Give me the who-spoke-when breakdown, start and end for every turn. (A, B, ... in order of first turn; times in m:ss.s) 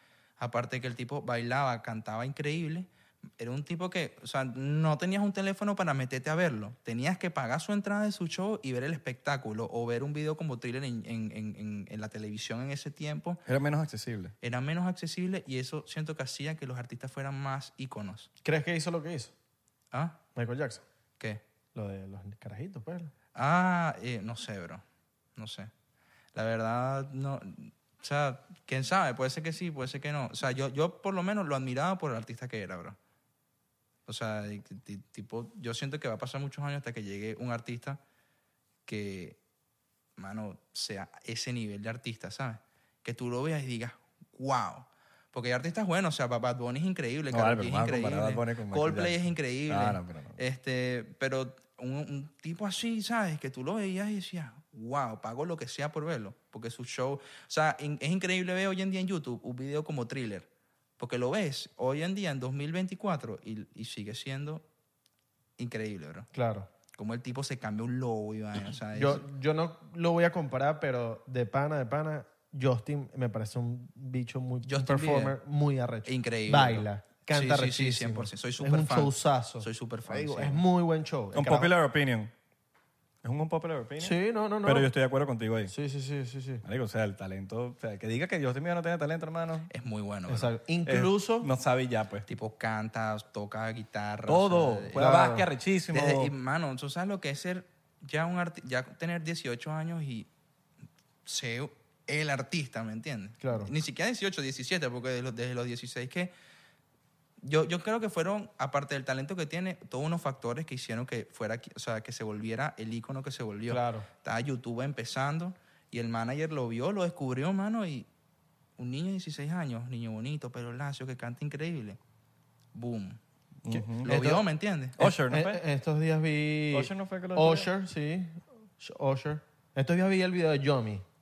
0:00.4-0:13.4 A
0:13.5-0:14.3 B
0:14.4-0:18.3 A
0:18.4-0:19.3 C
0:19.9-0:20.2 A
0:20.4-0:20.8 C
0:21.7-0:23.1 C
0:23.3-0:24.8 A
0:25.4-0:25.7 A
0:26.3-0:33.0 A
0:34.0-0:38.0 A
0:38.8-0:39.4 A
0:40.2-1:00.5 A
0:47.3-0:50.4 B
1:01.0-1:04.6 A
1:05.6-1:06.3 A
1:06.3-1:06.7 C
1:06.9-1:09.2 A
1:08.9-1:21.7 C
1:14.6-1:15.4 A
1:16.0-1:20.6 A
1:21.3-1:22.3 B
1:23.2-1:25.7 B
1:24.0-1:24.9 C
1:25.7-1:26.6 C
1:26.6-1:29.7 B
1:29.7-1:30.5 A
1:30.3-1:31.5 C
1:30.8-1:32.3 B
1:32.3-1:35.0 A
1:34.2-1:36.3 B
1:35.0-1:35.4 C
1:35.9-1:40.3 A
1:41.2-1:46.3 A
1:43.4-1:43.7 C
1:47.4-1:58.1 A
1:53.7-1:54.0 C
1:58.8-2:02.0 A
2:02.7-2:03.2 A
2:03.6-2:04.4 B
2:03.7-2:04.4 C
2:04.0-2:05.0 A
2:05.0-2:05.6 B
2:05.2-2:11.0 C
2:06.7-2:07.7 B